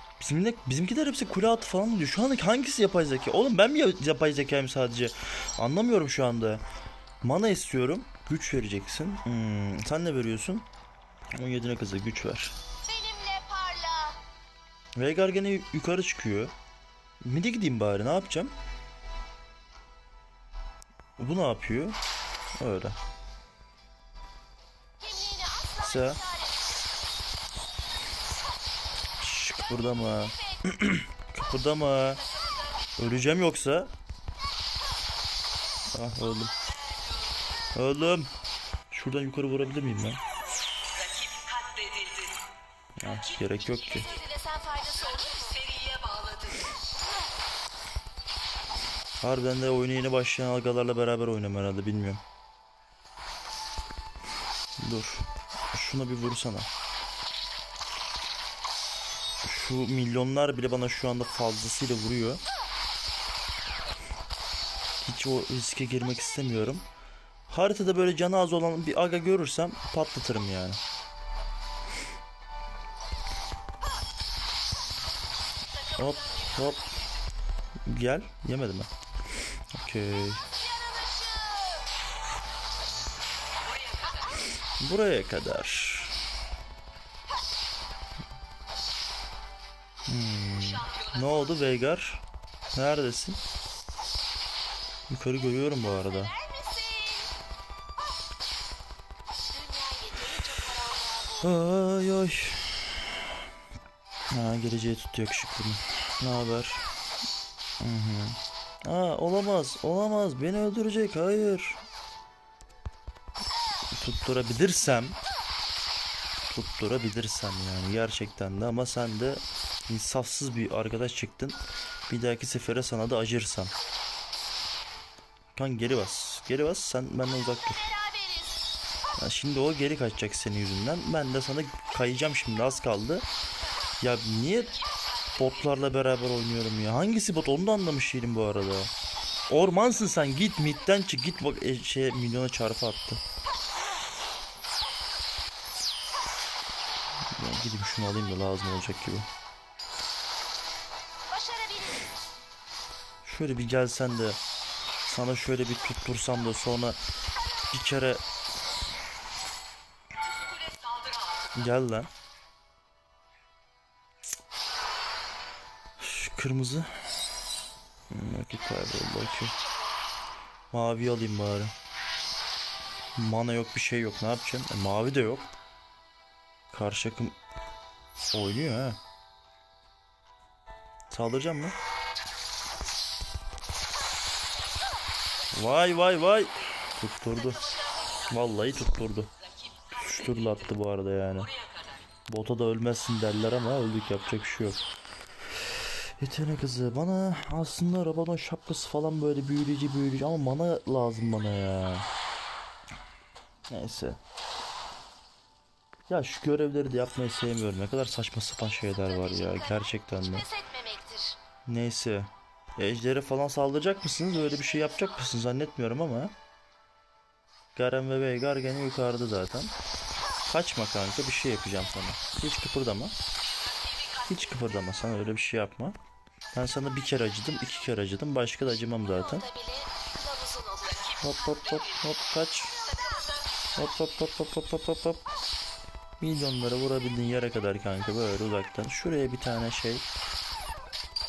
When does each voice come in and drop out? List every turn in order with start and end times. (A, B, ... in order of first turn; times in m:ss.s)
0:00.2-0:06.6 A
0:07.2-0:10.7 A
0:11.4-0:12.6 A
0:12.8-0:14.2 B
0:15.0-0:16.5 A
0:17.2-0:18.6 A
0:21.2-0:22.0 A
0:22.6-0:23.0 A
0:25.0-0:27.0 B
0:25.8-0:26.2 A
0:29.2-0:32.2 A
0:33.0-0:33.9 A
0:35.9-0:36.6 A
0:36.6-0:37.4 C
0:37.8-0:38.3 A
0:38.9-0:40.2 A
0:40.9-0:42.4 C
0:43.0-0:44.1 A
0:43.8-0:45.6 B
0:45.1-0:46.7 C
0:49.2-0:52.2 A
0:54.8-0:56.7 A
0:59.4-1:02.4 A
1:05.0-1:06.9 A
1:07.5-1:10.8 A
1:15.8-1:17.1 C
1:16.0-1:16.9 A
1:17.9-1:18.9 A
1:19.7-1:20.5 A
1:20.3-1:21.9 B
1:23.7-1:24.4 C
1:24.8-1:26.2 A
1:30.1-1:32.2 A
1:30.8-1:31.2 C
1:32.7-1:33.4 A
1:35.1-1:36.3 A
1:35.6-1:37.3 B
1:39.5-1:41.5 B
1:41.4-1:43.0 A
1:44.3-1:46.9 A
1:47.8-1:51.8 A
1:53.9-1:55.2 A
1:56.5-2:03.7 A
2:05.6-2:07.9 A
2:07.7-2:08.6 B
2:09.2-2:13.3 A
2:14.0-2:14.8 A
2:14.8-2:15.4 C
2:15.4-2:18.9 A
2:19.5-2:23.2 A
2:27.3-2:29.3 A
2:31.3-2:32.1 B
2:33.2-2:34.4 A
2:35.1-2:37.0 A
2:37.7-2:38.2 A
2:40.3-2:41.5 C
2:41.6-2:42.1 A
2:46.0-2:46.9 A
2:48.1-2:49.6 A
2:49.3-2:50.0 B
2:50.7-2:51.7 A
2:53.2-2:55.5 A
2:56.7-2:57.4 A
2:58.3-2:59.0 A
3:01.1-3:01.8 A
3:05.5-3:09.3 A
3:07.4-3:08.3 C
3:09.4-3:10.6 C
3:09.9-3:11.5 A
3:11.5-3:12.0 C
3:12.3-3:14.8 A
3:16.2-3:22.1 A
3:23.7-3:24.2 A
3:26.1-3:30.5 A
3:28.8-3:31.4 B
3:31.7-3:36.3 A
3:37.8-3:39.7 A
3:40.5-3:43.2 A
3:43.4-3:44.7 C
3:44.3-3:46.0 A
3:46.5-3:49.4 A
3:49.0-3:51.2 B
3:50.8-3:51.8 C
3:51.2-3:52.8 A
3:52.9-3:53.8 C
3:53.8-3:55.2 A
3:56.2-4:00.1 A